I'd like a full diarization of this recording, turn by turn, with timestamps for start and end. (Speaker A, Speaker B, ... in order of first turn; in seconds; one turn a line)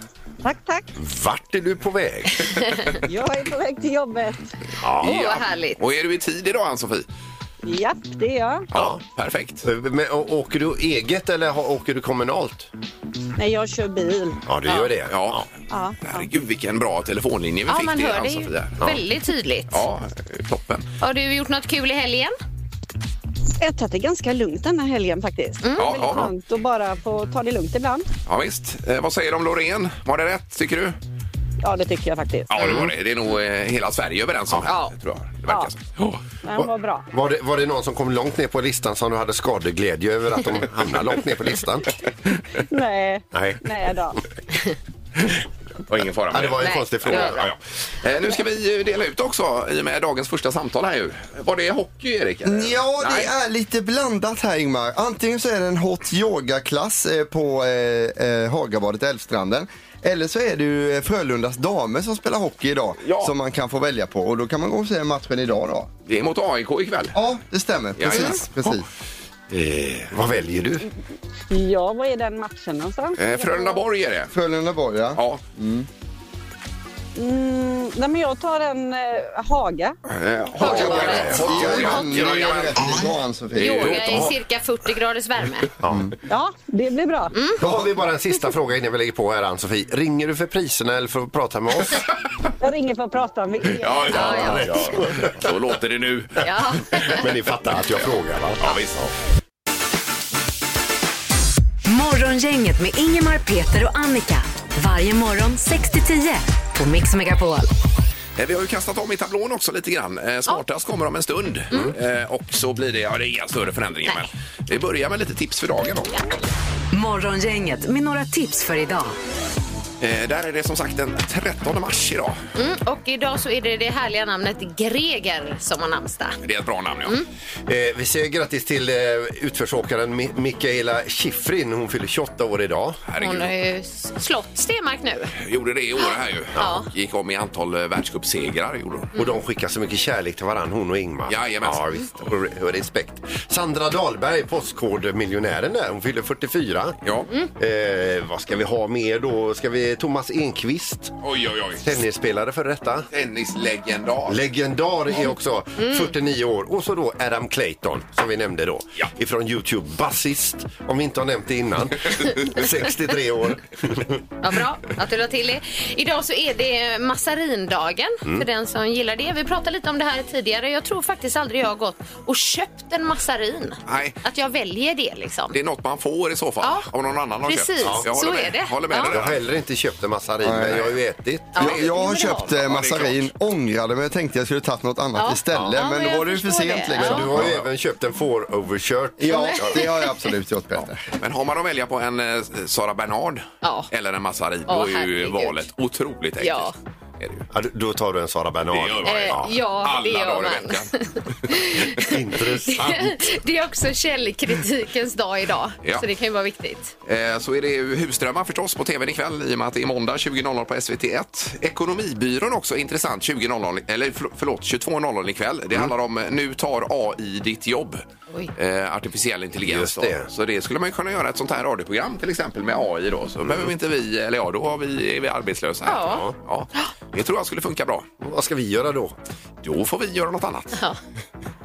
Speaker A: 0.4-0.9
Speaker B: 0.9-2.6
Speaker A: 3.0-4.5
Speaker B: 4.8-5.2
Speaker C: 5.0-7.1
Speaker D: 5.0-5.8
Speaker A: 7.6-8.7
Speaker C: 8.7-9.6
Speaker B: 8.7-9.0
Speaker B: 9.6-12.7
Speaker A: 13.4-14.4
Speaker B: 14.5-15.4
Speaker C: 15.1-15.5
Speaker A: 15.7-16.0
Speaker C: 16.0-18.8
Speaker D: 17.7-19.8
Speaker C: 19.7-20.9
Speaker D: 21.0-22.3
Speaker A: 23.6-28.1
Speaker D: 25.6-26.1
Speaker C: 25.8-26.3
Speaker C: 28.2-31.0
Speaker A: 31.6-32.8
Speaker C: 32.5-36.2
Speaker D: 34.7-34.9
Speaker A: 36.4-37.0
Speaker B: 36.5-42.0
Speaker A: 42.7-44.2
Speaker B: 43.3-43.6
Speaker C: 45.9-53.3
Speaker B: 46.3-47.5
Speaker D: 46.6-47.4
Speaker E: 52.4-65.9
Speaker C: 63.0-63.3
Speaker C: 66.0-67.2
Speaker E: 67.1-68.8
Speaker C: 68.0-68.8
Speaker B: 69.5-70.8
Speaker A: 71.5-73.8
Speaker C: 73.2-74.3
Speaker E: 74.3-75.9
Speaker C: 75.2-75.4
Speaker A: 77.2-80.0
Speaker C: 80.1-84.3
Speaker D: 80.6-81.9
Speaker B: 80.6-82.0
Speaker E: 80.6-84.3
Speaker D: 83.6-85.7
Speaker B: 85.8-86.1
Speaker A: 86.3-87.3
Speaker D: 87.3-87.6
Speaker B: 87.6-92.1
Speaker E: 87.6-87.9
Speaker A: 92.6-94.4
Speaker C: 93.8-97.1
Speaker D: 94.1-94.9
Speaker B: 94.1-95.5
Speaker D: 96.4-97.2
Speaker B: 97.0-98.8
Speaker C: 98.6-99.1
Speaker F: 101.8-107.7
Speaker C: 108.3-116.2
Speaker F: 116.9-119.1
Speaker C: 120.0-122.4
Speaker D: 122.5-126.4
Speaker C: 126.4-127.2
Speaker B: 127.7-133.0
Speaker C: 133.1-133.5
Speaker D: 133.2-135.3
Speaker C: 135.4-139.1
Speaker D: 136.6-136.9
Speaker B: 139.1-147.0
Speaker C: 141.3-142.3
Speaker C: 147.0-147.3
Speaker B: 147.6-151.1
Speaker C: 151.2-151.8
Speaker B: 151.8-153.1
Speaker C: 153.1-154.4
Speaker B: 154.3-164.2
Speaker D: 155.8-156.1
Speaker D: 164.4-175.6
Speaker C: 173.8-174.2
Speaker C: 175.5-179.4
Speaker D: 176.6-176.9
Speaker D: 177.4-179.1
Speaker B: 177.8-178.1
Speaker B: 179.1-181.6
Speaker E: 180.4-180.9
Speaker D: 181.5-182.5
Speaker E: 181.5-187.5
Speaker C: 181.6-181.9
Speaker C: 182.5-183.3
Speaker D: 185.2-187.3
Speaker B: 186.9-189.8
Speaker E: 189.2-191.0
Speaker D: 189.2-190.1
Speaker C: 191.2-197.5
Speaker D: 193.6-193.9
Speaker D: 194.7-195.7
Speaker D: 196.4-196.7
Speaker B: 197.5-199.5
Speaker C: 198.7-200.9
Speaker D: 199.0-202.1
Speaker B: 202.0-203.3
Speaker D: 202.6-206.9
Speaker C: 207.0-218.0
Speaker C: 218.5-228.1
Speaker B: 219.7-220.3
Speaker D: 225.8-226.9
Speaker B: 226.0-226.3
Speaker B: 228.2-229.1
Speaker C: 229.6-230.8